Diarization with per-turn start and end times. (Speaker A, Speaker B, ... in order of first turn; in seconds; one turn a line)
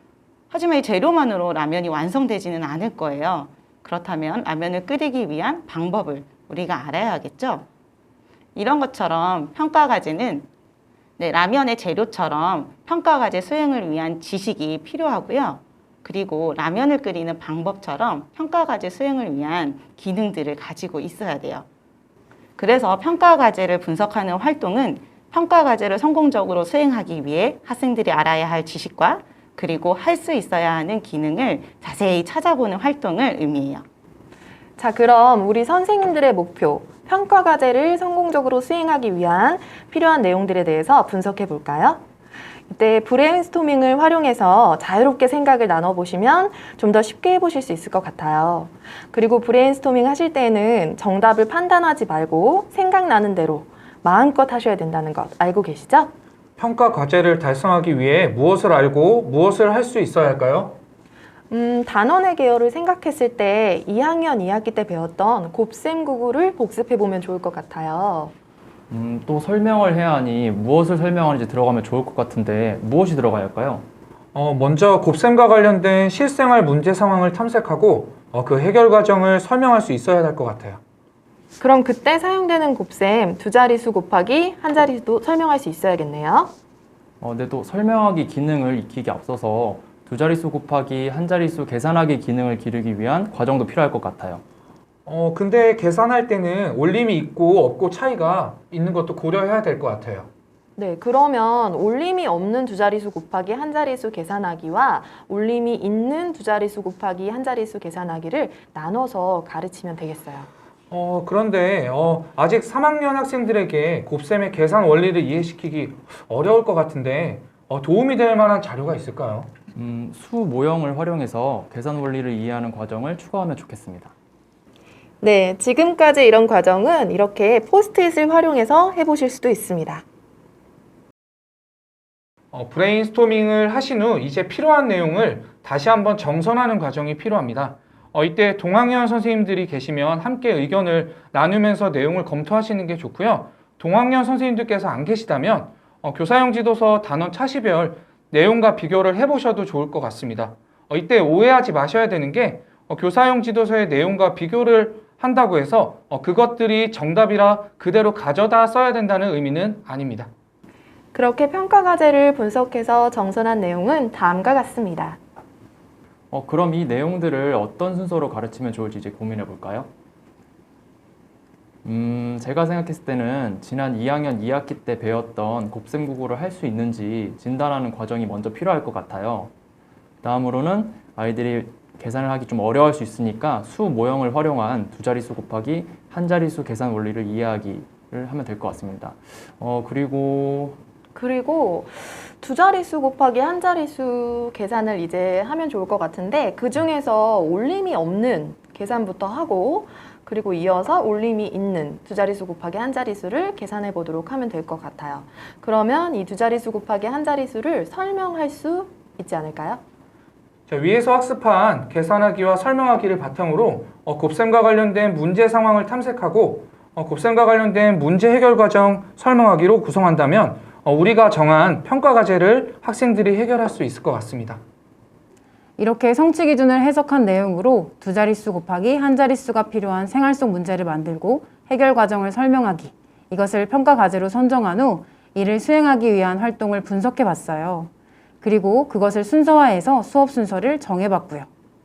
Speaker A: 0.5-7.7
Speaker A: 8.6-10.5
Speaker A: 11.2-21.7
Speaker A: 22.6-33.9
Speaker B: 34.8-42.0
Speaker B: 42.7-56.1
Speaker C: 56.6-60.8
Speaker B: 61.5-68.3
Speaker D: 68.9-73.9
Speaker C: 74.3-80.8
Speaker B: 81.6-86.5
Speaker D: 87.2-94.4
Speaker C: 95.1-100.3
Speaker B: 100.8-110.5
Speaker C: 110.9-119.5
Speaker D: 119.8-124.1
Speaker B: 125.2-130.0
Speaker C: 132.5-160.3
Speaker B: 161.1-165.2
Speaker D: 166.3-169.9
Speaker D: 171.8-179.5
Speaker D: 180.2-190.8
Speaker B: 191.2-209.8
Speaker C: 210.7-224.6
Speaker E: 225.8-241.5